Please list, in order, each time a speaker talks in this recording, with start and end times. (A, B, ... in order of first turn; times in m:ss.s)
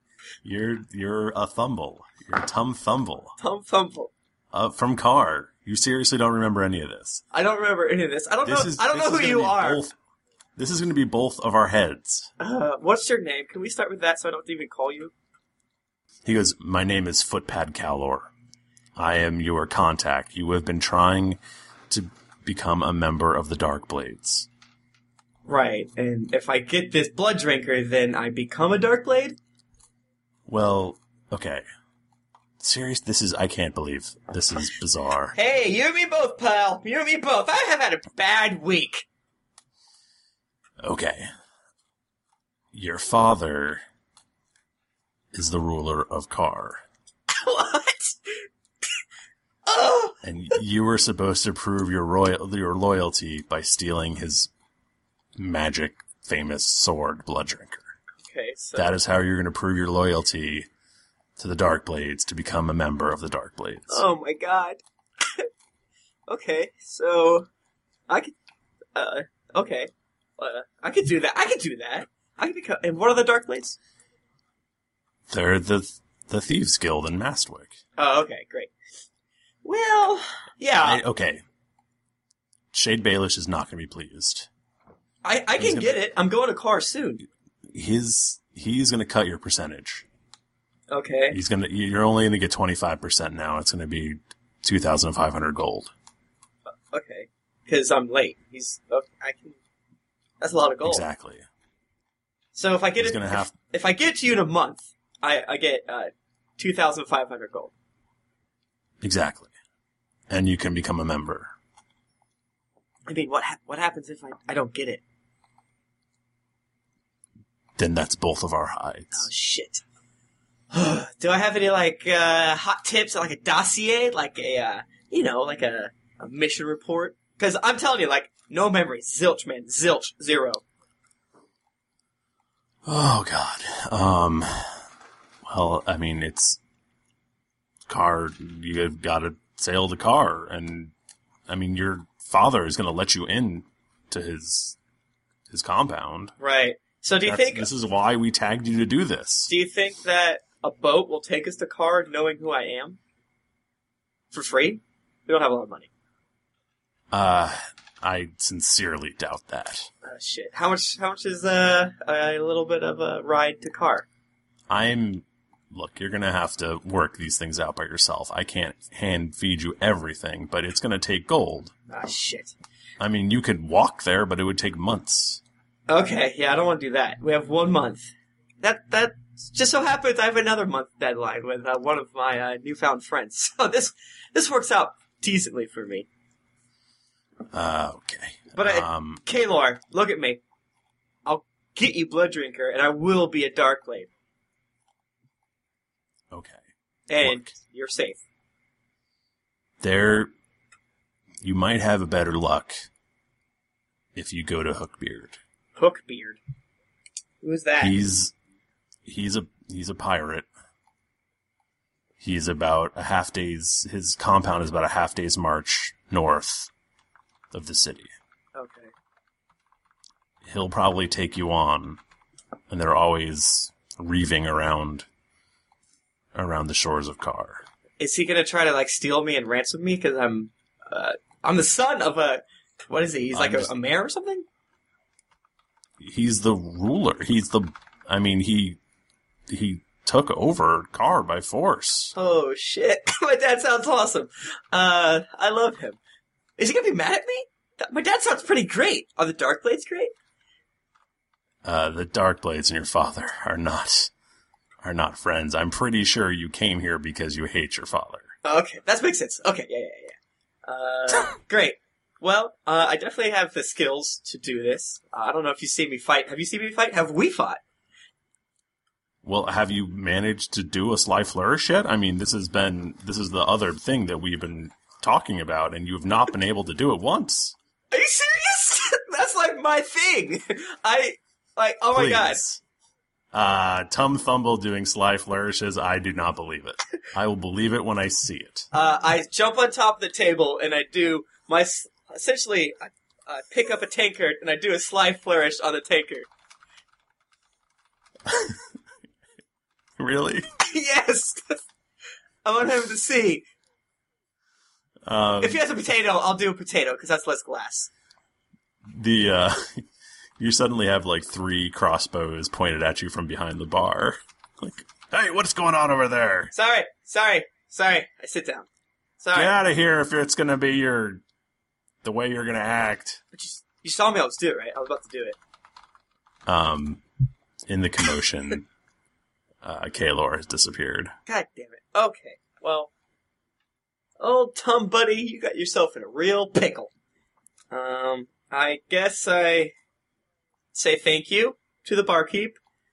0:00.4-0:03.4 A
0:03.4-0:04.1 B
0:04.5-0:07.2 A
0:07.3-0:09.8 B
0:08.4-0:09.9 A
0:10.6-0:12.3 A
0:12.4-0:15.1 B
0:16.3-0:18.3 A
0:19.0-0:24.5 A
0:25.4-0:29.4 B
0:30.5-0:31.6 A
0:32.6-0:35.4 A
0:35.4-0:39.0 B
0:40.8-0:41.3 A
0:42.7-0:43.8 A
0:45.3-0:46.8 A
0:47.4-0:48.3 B
0:49.7-0:50.2 B
0:50.2-0:54.5 A
0:55.4-0:57.8 A
0:58.2-0:59.0 B
0:58.7-1:00.7 A
1:01.4-1:04.0 A
1:03.9-1:05.5 B
1:06.3-1:07.5 B
1:08.1-1:08.3 B
1:09.0-1:13.8 B
1:15.3-1:17.8 A
1:18.0-1:18.7 B
1:19.6-1:21.0 B
1:20.8-1:21.4 A
1:22.7-1:24.5 A
1:25.2-1:27.2 B
1:25.6-1:26.0 A
1:27.7-1:30.0 A
1:30.9-1:31.4 B
1:31.3-1:35.9 A
1:36.9-1:39.6 B
1:40.4-1:41.0 B
1:40.8-1:41.4 A
1:42.6-1:47.7 B
1:43.0-1:43.6 A
1:49.0-1:49.5 A
1:50.3-1:51.5 A
1:53.1-1:55.0 B
1:57.8-1:59.3 A
1:59.1-1:59.8 B
2:00.7-2:10.6 B
2:12.9-2:14.7 A
2:15.4-2:16.6 A
2:17.9-2:20.9 A
2:21.5-2:24.8 A
2:25.5-2:26.3 A
2:26.4-2:27.7 B
2:27.2-2:29.5 A
2:29.5-2:33.0 B
2:34.3-2:35.9 B
2:37.1-2:39.9 A
2:40.0-2:44.0 B
2:44.7-2:51.7 A
2:51.9-2:52.5 B
2:53.0-2:55.4 A
2:55.9-2:58.1 B
2:58.6-3:06.1 B
3:07.5-3:09.2 A
3:08.6-3:10.4 B
3:11.2-3:14.1 B
3:16.3-3:16.6 A
3:17.1-3:18.2 B
3:17.2-3:17.6 A
3:19.8-3:20.3 A
3:21.4-3:22.9 A
3:24.1-3:25.4 A
3:25.8-3:26.4 B
3:27.4-3:28.0 B
3:27.8-3:28.3 A
3:29.0-3:30.5 A
3:32.2-3:36.7 A
3:37.5-3:38.1 A
3:38.6-3:38.9 B
3:40.4-3:42.0 A
3:42.7-3:45.0 A
3:46.4-3:47.6 A
3:48.0-3:54.4 B
3:53.3-3:53.7 A
3:56.0-3:58.8 A
3:59.5-4:02.1 A
4:02.1-4:06.0 B
4:06.6-4:10.1 B
4:11.6-4:14.1 A
4:14.8-4:18.3 A
4:18.4-4:20.1 B
4:20.7-4:27.6 B
4:29.2-4:37.6 A
4:37.9-4:42.4 B
4:41.9-4:42.6 A
4:43.3-4:48.7 A
4:48.7-4:56.3 B
5:00.0-5:00.5 A
5:00.6-5:01.6 B
5:02.4-5:03.4 B
5:05.0-5:05.6 A
5:05.4-5:07.9 B
5:08.9-5:09.8 A
5:10.4-5:16.5 A
5:16.5-5:18.7 B
5:19.2-5:19.6 B
5:19.3-5:21.2 A
5:22.0-5:23.2 A
5:23.3-5:25.4 B
5:26.4-5:27.0 A
5:27.7-5:28.6 A
5:29.6-5:31.1 A
5:31.3-5:32.9 B
5:34.2-5:36.9 B
5:37.7-5:39.7 B
5:40.7-5:42.6 B